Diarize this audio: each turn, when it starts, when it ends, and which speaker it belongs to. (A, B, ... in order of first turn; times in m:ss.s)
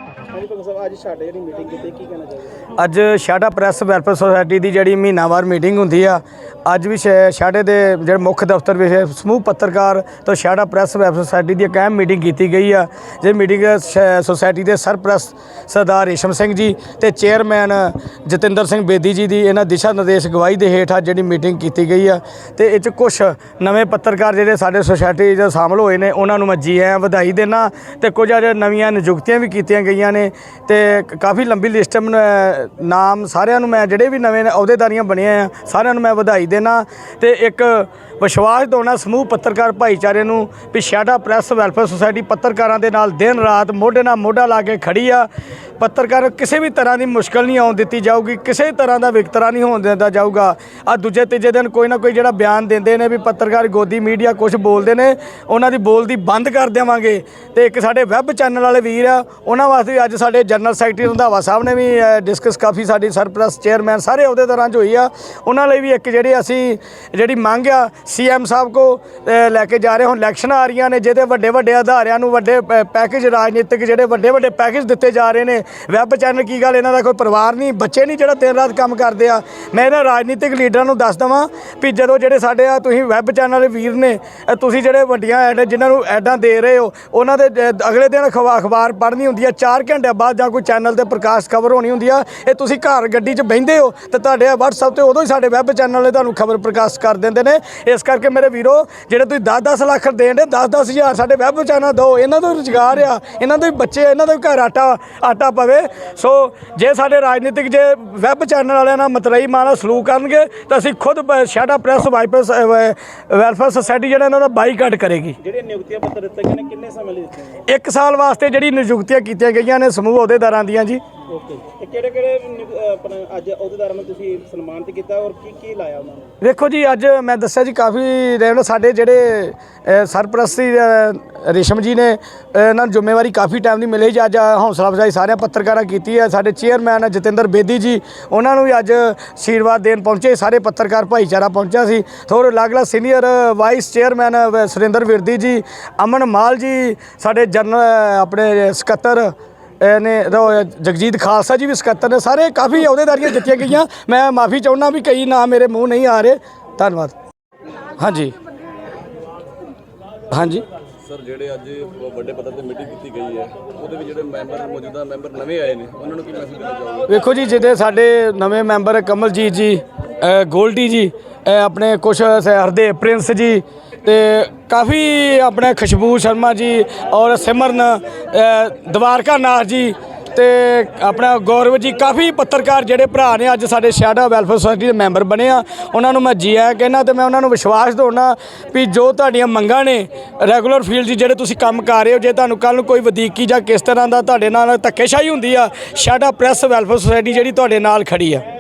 0:00.3-0:02.6 A
0:02.8-1:55.4 B
1:55.4-1:57.6 A
1:57.7-2:01.0 B
2:01.3-2:06.3 A
2:06.4-2:37.2 B
2:38.0-2:38.4 B
2:40.3-2:40.6 B
2:41.0-2:47.1 C
2:47.1-3:18.4 B